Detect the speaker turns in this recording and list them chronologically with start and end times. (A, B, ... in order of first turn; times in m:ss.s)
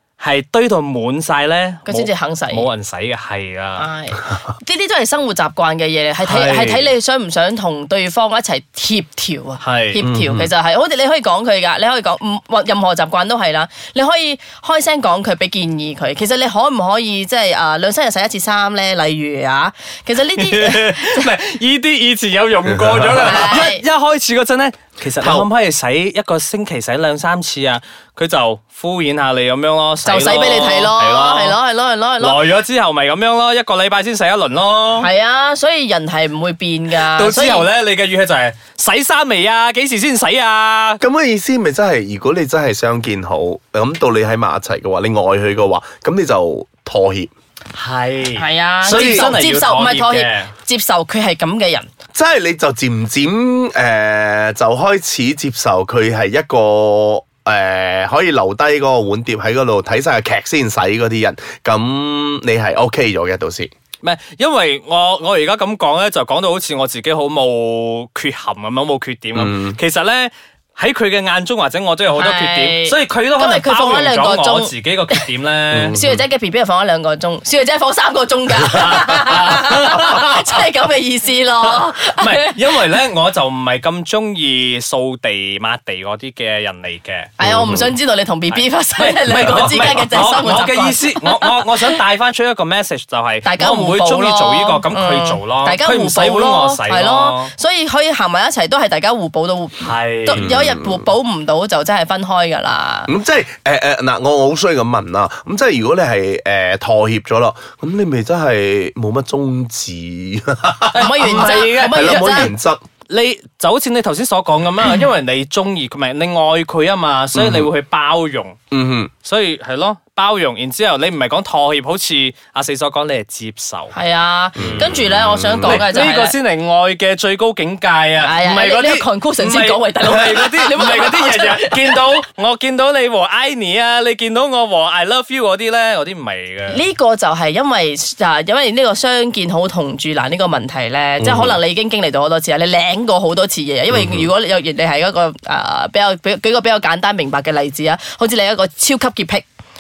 0:00.2-0:03.8 A
0:01.9-0:02.7 B
0:03.8-0:21.3 B
0:06.2-0:06.9 A
0:09.6-0:10.0 A
0:10.0-0:10.5 C
0:20.4-0:31.6 A
0:22.8-0:23.5 C
0:23.2-0:23.8 B
0:25.2-0:25.5 C
0:30.0-0:32.4 B
0:32.2-0:35.1 A
0:35.0-0:37.7 B
0:36.9-0:41.0 A
0:41.0-0:47.3 C
0:47.8-0:50.5 A
0:48.4-0:51.9 B
0:48.8-0:49.4 C
0:52.2-1:03.7 C
1:04.0-1:16.0 A
1:09.3-1:09.8 C
1:12.2-1:15.2 B
1:15.7-1:16.2 C
1:15.9-1:22.6 B
1:18.7-1:20.6 A
1:21.7-1:27.3 A
1:27.4-1:32.0 B
1:27.4-1:27.9 C
1:28.5-1:37.5 A
1:33.4-1:43.1 B
1:39.8-1:40.5 A
1:40.4-1:41.0 C
1:43.1-1:52.8 C
1:50.9-1:52.5 A
1:51.0-1:52.5 B
1:53.1-1:58.6 A
1:57.4-1:57.7 C
1:58.7-1:59.1 C
1:59.2-2:03.9 A
2:03.9-2:06.4 B
2:04.6-2:05.8 C
2:04.6-2:04.9 A
2:05.6-2:16.8 A
2:08.2-2:12.0 B
2:16.7-2:29.5 B
2:21.2-2:21.6 C
2:23.9-2:24.3 C